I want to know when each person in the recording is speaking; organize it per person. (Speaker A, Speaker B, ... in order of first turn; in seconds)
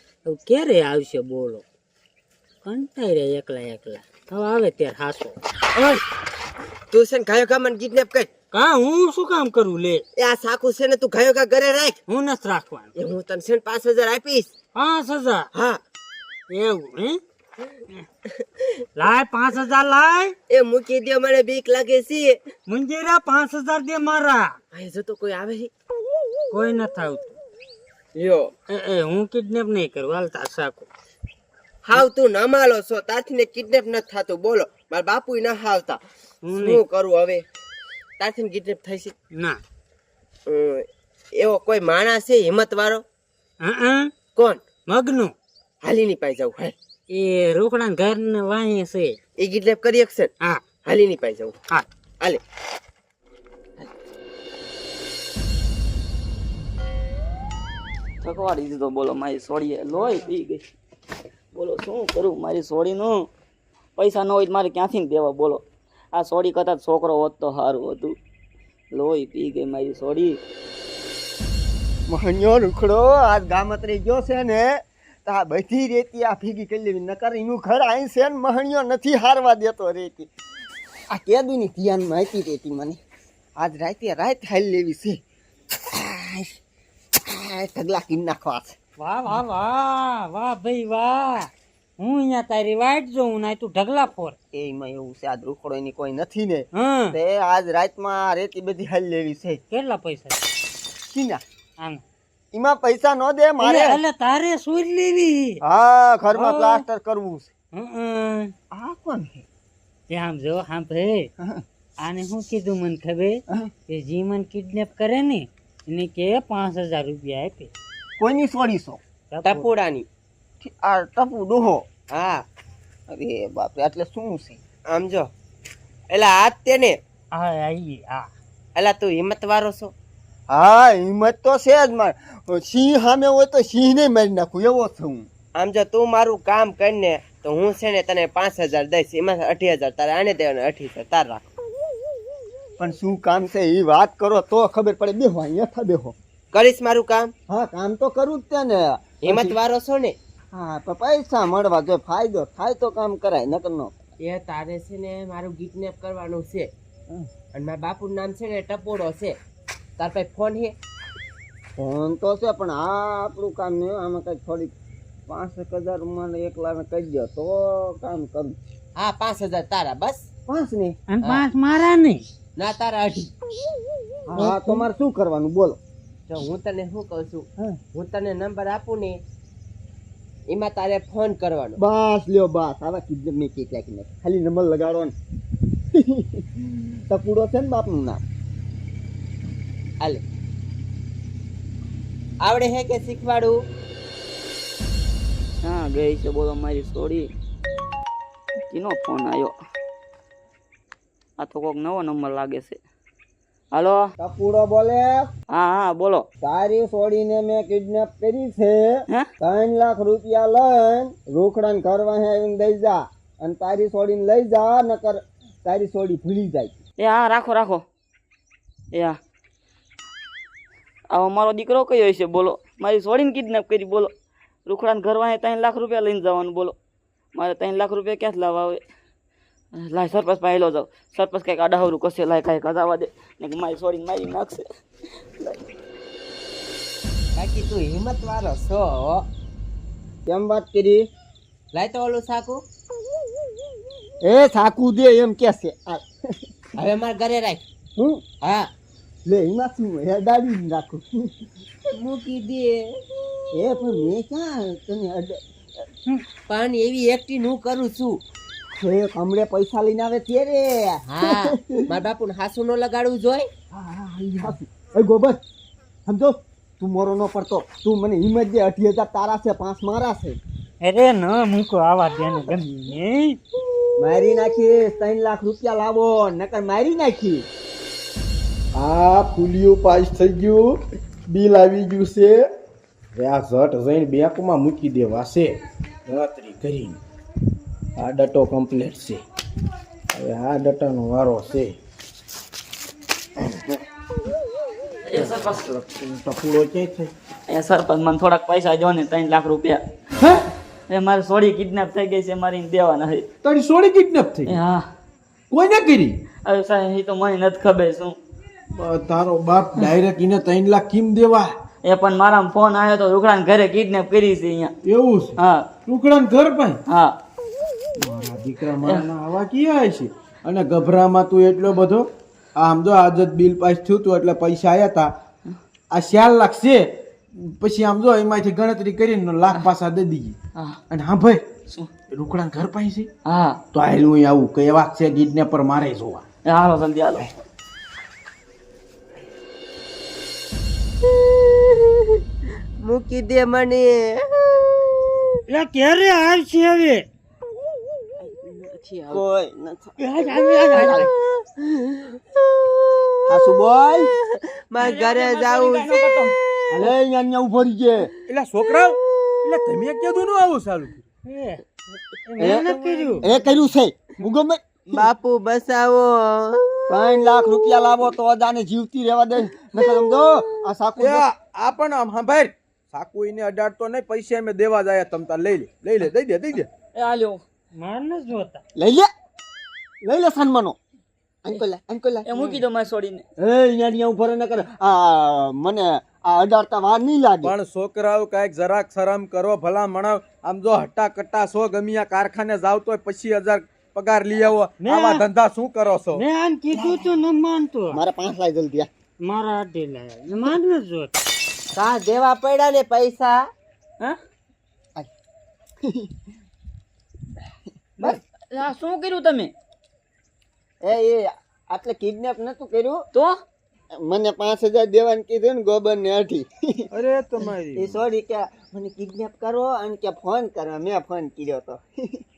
Speaker A: 0.2-1.6, 2.6-6.0, 8.5-10.0, 12.1-12.9, 14.8-15.5, 16.5-17.2, 19.0-20.4, 22.7-24.6, 26.5-27.4, 28.7-30.9, 36.4-36.8, 43.6-44.1, 44.9-45.4, 47.1-49.2, 89.0-94.4, 96.8-97.2, 99.7-100.4, 103.6-105.6, 106.3-106.8, 107.7-108.5, 110.1-111.3, 112.0-117.7, 119.3-119.7, 127.3-128.3, 171.1-172.2, 270.8-273.4, 345.5-347.1, 350.0-351.1, 361.2-363.4, 377.8-378.6, 382.3-382.6, 394.8-395.2, 396.1-398.0, 399.2-401.1
Speaker B: 6.9-8.3, 10.2-12.0, 12.9-14.5, 15.5-15.8, 20.5-22.4, 24.7-25.7, 28.1-28.5, 31.9-36.0, 36.5-37.5, 38.2-39.1, 40.5-40.9, 41.4-43.0, 44.4-44.6, 45.8-46.7, 49.4-50.3, 50.8-51.5, 119.5-120.1, 122.1-122.4, 124.9-125.2, 126.1-127.0, 128.8-129.9, 135.6-141.5, 146.5-147.3, 149.2-150.2, 154.2-156.7, 157.5-159.4, 160.0-160.8, 169.0-170.3, 172.6-173.3, 176.3-179.2, 180.5-181.8, 192.4-193.6, 237.4-239.3, 241.7-242.6, 246.8-247.6, 251.9-252.8, 256.5-258.2, 261.1-263.5, 341.2-342.0, 342.8-345.3, 348.2-349.2, 350.8-352.1, 354.7-355.9, 362.5-363.0, 364.9-366.8, 401.8-403.4
Speaker C: 58.2-60.7, 61.5-63.3, 64.0-68.2, 68.9-70.4, 195.6-197.3, 198.7-199.6, 201.4-202.8, 203.7-204.1, 205.5-206.2, 217.0-217.8, 218.9-219.2, 221.1-224.1, 224.7-226.8, 227.3-228.8, 229.8-234.6, 295.1-295.7, 297.5-299.8, 300.9-303.3, 304.5-304.8, 306.5-308.2, 311.9-314.7, 315.4-315.7, 318.8-319.3, 333.3-333.6, 336.5-337.2, 354.8-356.4, 376.0-377.4, 382.5-383.2, 408.0-409.5
Speaker D: 72.1-80.3, 81.1-83.0, 83.6-85.2, 85.9-86.5, 87.3-88.8, 94.5-99.6, 101.1-101.4, 102.5-104.0, 105.6-107.5, 108.7-109.5, 118.2-119.0, 120.6-121.8, 123.1-124.6, 130.5-135.3, 142.8-146.2, 147.5-149.6, 150.5-154.1, 161.8-164.7, 165.3-168.6, 170.5-171.0, 174.3-175.8, 181.8-185.1, 185.9-188.2, 204.2-205.3, 206.4-216.8, 240.2-241.1, 244.2-246.1, 248.0-248.2, 249.3-251.3, 253.5-255.4, 258.8-261.8, 263.7-265.4, 266.1-270.4, 274.0-277.5, 349.1-351.1, 353.3-354.1, 356.7-358.1, 362.4-364.8, 366.9-371.2, 378.8-379.1, 380.0-380.8, 381.4-382.3, 383.4-387.5, 397.9-398.9, 410.9-413.0, 414.0-416.9, 417.8-422.2
Speaker E: 278.7-280.8, 281.3-282.5, 283.1-287.0, 288.0-289.2, 290.1-291.8, 295.1-297.1, 303.4-304.5, 305.5-306.2, 308.7-311.5, 314.9-316.8, 318.0-325.1, 325.9-326.9, 327.6-330.4, 330.9-331.4, 332.1-333.1, 333.7-336.2, 358.3-361.1, 371.0-376.7, 387.4-396.2, 416.9-418.0